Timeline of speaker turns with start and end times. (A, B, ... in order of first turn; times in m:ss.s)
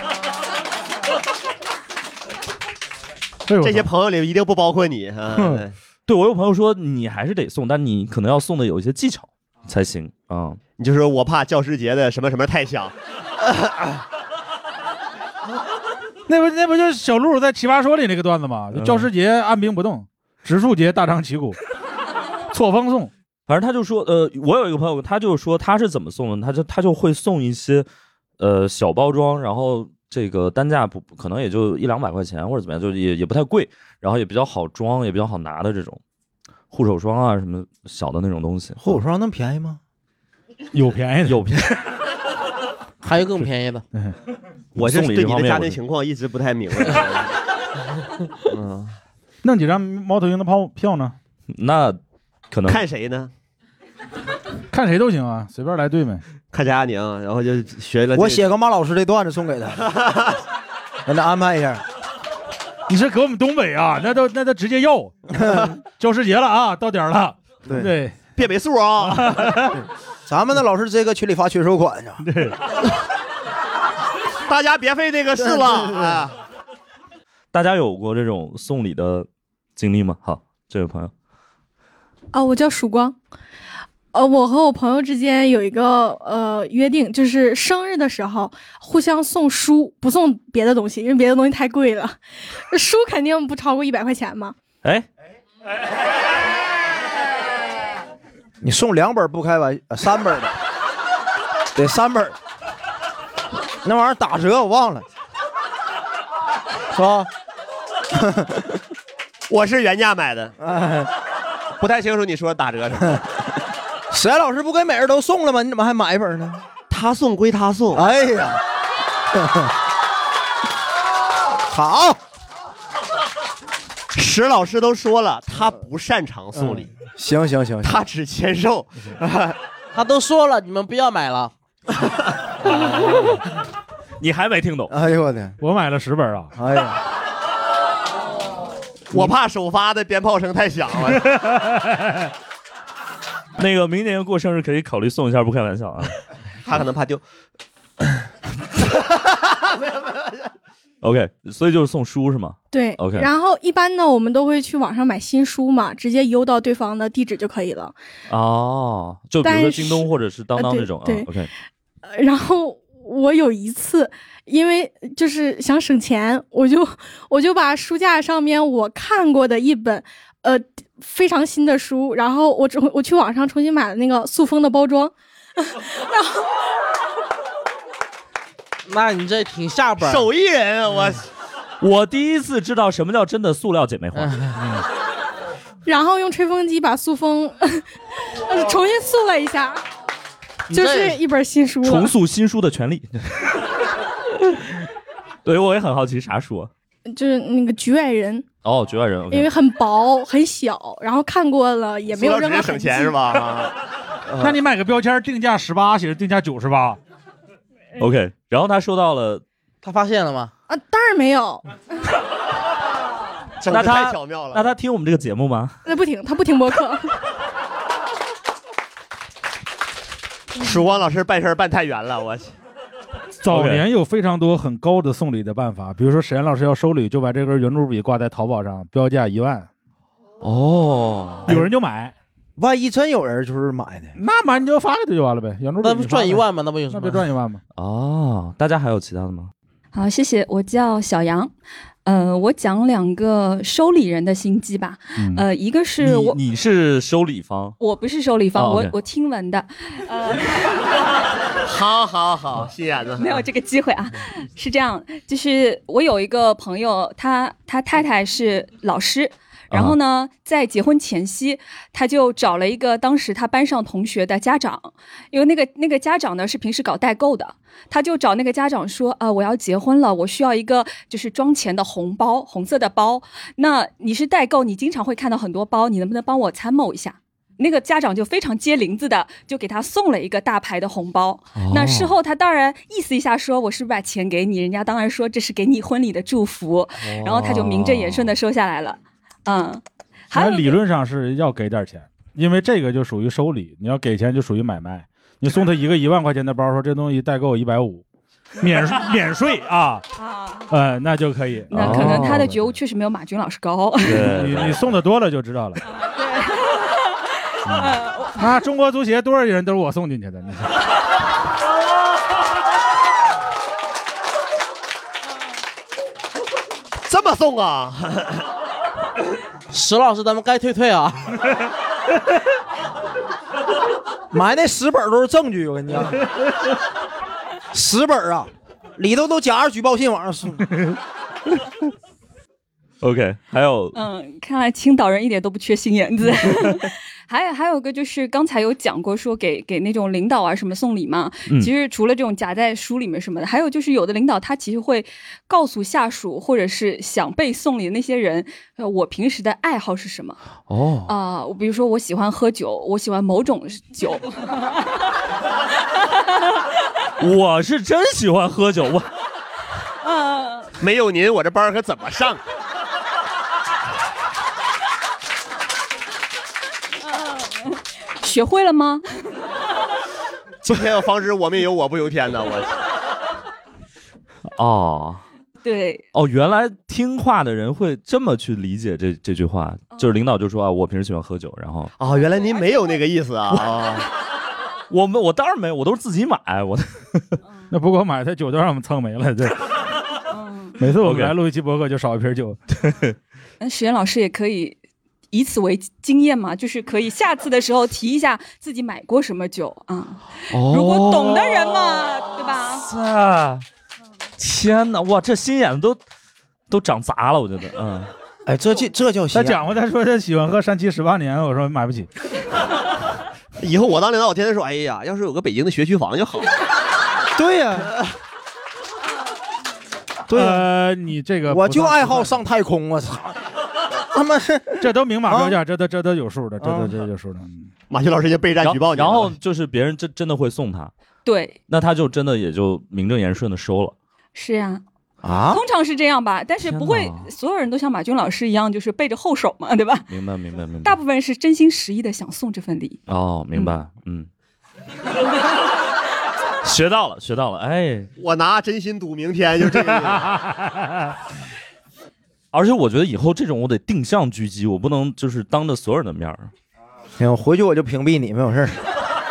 0:03.5-0:03.9 A
0:03.6-0:05.8 B
0:05.4-0:05.6 A
0:06.1-0:10.6 C
0:10.8-0:12.9 B
0:16.3-0:21.6 A
0:18.7-0:19.1 C
0:22.5-0:23.1 A
0:23.5-0:27.9 C
0:28.4-0:36.0 C
0:36.7-0:38.8 C
0:38.8-0:39.8 D
0:40.7-0:41.5 A
0:41.3-0:41.6 C
0:43.0-0:43.8 E
0:44.8-0:45.8 C
0:44.8-0:47.3 B
0:48.5-0:49.0 B
0:49.4-0:51.2 A
0:51.5-0:52.0 C
0:52.5-0:52.8 C
0:52.7-0:53.3 B
0:54.7-0:56.2 A
0:56.5-0:58.5 B
0:58.2-0:59.8 D
0:59.9-1:00.4 B
1:01.1-1:01.8 D
1:02.9-1:05.2 A
1:06.0-1:08.2 A
1:08.4-1:09.5 B
1:09.1-1:09.7 A
1:10.3-1:12.2 D
1:12.2-1:12.6 A
1:14.5-1:16.4 B
1:15.4-1:16.2 D
1:17.5-1:21.1 C
1:22.3-1:23.2 F
1:24.1-1:32.2 F
1:32.7-1:34.6 F
1:38.6-1:40.5 D
1:41.8-1:42.4 D
1:43.8-1:45.1 D
1:46.9-1:47.3 D
1:48.1-1:48.8 D
1:49.5-1:50.5 B
1:50.6-1:51.1 D
1:51.8-1:53.2 B
1:54.1-1:56.6 D
1:56.9-1:58.0 B
1:57.9-1:58.6 D
1:59.3-1:59.7 D
2:01.7-2:02.2 D
2:04.2-2:06.9 B
2:06.6-2:08.0 D
2:07.8-2:09.6 B
2:09.9-2:11.5 E
2:14.2-2:14.9 C
2:14.9-2:15.6 D
2:15.6-2:16.5 A
2:16.6-2:17.0 D
2:19.1-2:21.3 B
2:21.3-2:22.2 A
2:23.6-2:26.2 C
2:26.6-2:27.2 B
2:29.7-2:30.2 B
2:31.0-2:33.3 C
2:32.7-2:38.0 F
2:38.3-2:41.5 C
2:39.4-2:41.3 F
2:42.0-2:56.4 F
2:58.9-3:00.3 E
3:00.0-3:01.3 B
3:01.8-3:04.3 C
3:04.2-3:04.6 E
3:05.8-3:07.8 F
3:08.4-3:09.8 F
3:10.7-3:12.1 F
3:10.7-3:11.2 E
3:11.8-3:13.6 C
3:15.4-3:16.7 C
3:17.1-3:18.5 F
3:18.6-3:19.5 C
3:19.3-3:23.2 F
3:22.1-3:24.6 B
3:24.4-3:27.0 A
3:28.0-3:29.4 C
3:29.8-3:30.5 E
3:30.7-3:31.6 F
3:33.6-3:34.7 B
3:33.6-3:35.8 C
3:35.8-3:37.1 F
3:40.6-3:42.5 B
3:43.4-3:49.7 A
3:43.5-3:43.8 C
3:50.4-3:51.6 C
3:51.5-3:52.1 A
3:52.6-3:54.2 D
3:54.2-3:57.6 A
3:55.8-3:57.3 E
3:57.8-3:59.5 C
3:59.9-4:01.5 G
4:02.0-4:06.4 G
4:05.2-4:05.4 A
4:06.0-4:07.8 C
4:07.8-4:10.9 G
4:08.6-4:09.0 C
4:11.6-4:13.3 B
4:13.2-4:50.8 G
4:19.7-4:20.0 C
4:41.6-4:42.2 C
4:47.0-4:48.4 C
4:50.3-4:58.0 A
4:58.6-5:00.0 A
5:00.2-5:00.7 G
5:00.7-5:02.7 A
5:01.7-5:04.3 G
5:01.7-5:02.5 C
5:04.0-5:04.9 C
5:04.1-5:05.8 A
5:05.8-5:08.6 G
5:07.7-5:10.8 A
5:17.1-5:18.4 B
5:19.7-5:21.4 E
5:24.3-5:26.2 D
5:27.7-5:30.7 D
5:33.0-5:34.0 C
5:33.9-5:50.4 G
5:36.5-5:36.7 C
5:50.7-5:51.1 C
5:51.1-5:55.0 G
5:56.1-5:56.4 G
5:57.2-5:59.1 C
6:00.0-6:00.7 G
6:00.8-6:02.4 B
6:07.0-6:09.0 G
6:10.6-6:12.8 B
6:14.6-6:15.2 C
6:15.6-6:16.0 G
6:16.1-6:21.9 C
6:19.9-6:20.2 G
6:22.0-6:24.1 B
6:22.4-6:22.7 G
6:24.9-6:27.4 C
6:27.7-6:29.6 A
6:30.3-6:30.8 G
6:30.8-6:32.6 A
6:31.0-6:31.4 C
6:32.8-6:33.1 C
6:33.6-6:34.8 G
6:35.3-6:42.9 G
6:40.5-6:42.0 C
6:42.7-6:43.6 C
6:44.4-6:46.0 C
6:46.7-6:48.1 C
6:48.5-6:49.6 D
6:49.3-6:52.1 A
6:53.6-6:56.5 B
6:57.4-6:57.9 D
7:00.3-7:00.7 D
7:00.3-7:02.4 A
7:01.5-7:03.4 D
7:04.0-7:05.6 D
7:04.8-7:07.7 A
7:06.6-7:07.0 D
7:07.9-7:09.3 B
7:08.6-7:10.9 C
7:11.2-7:11.6 G
7:11.7-7:14.0 C
7:14.4-7:14.8 G
7:15.2-7:15.6 D
7:15.5-7:20.1 G
7:16.6-7:17.3 C
7:20.1-7:21.0 C
7:20.8-7:23.0 G
7:23.1-7:24.3 C
7:26.6-7:28.1 C
7:28.2-7:30.4 B
7:32.5-7:36.5 C
7:37.2-7:38.8 D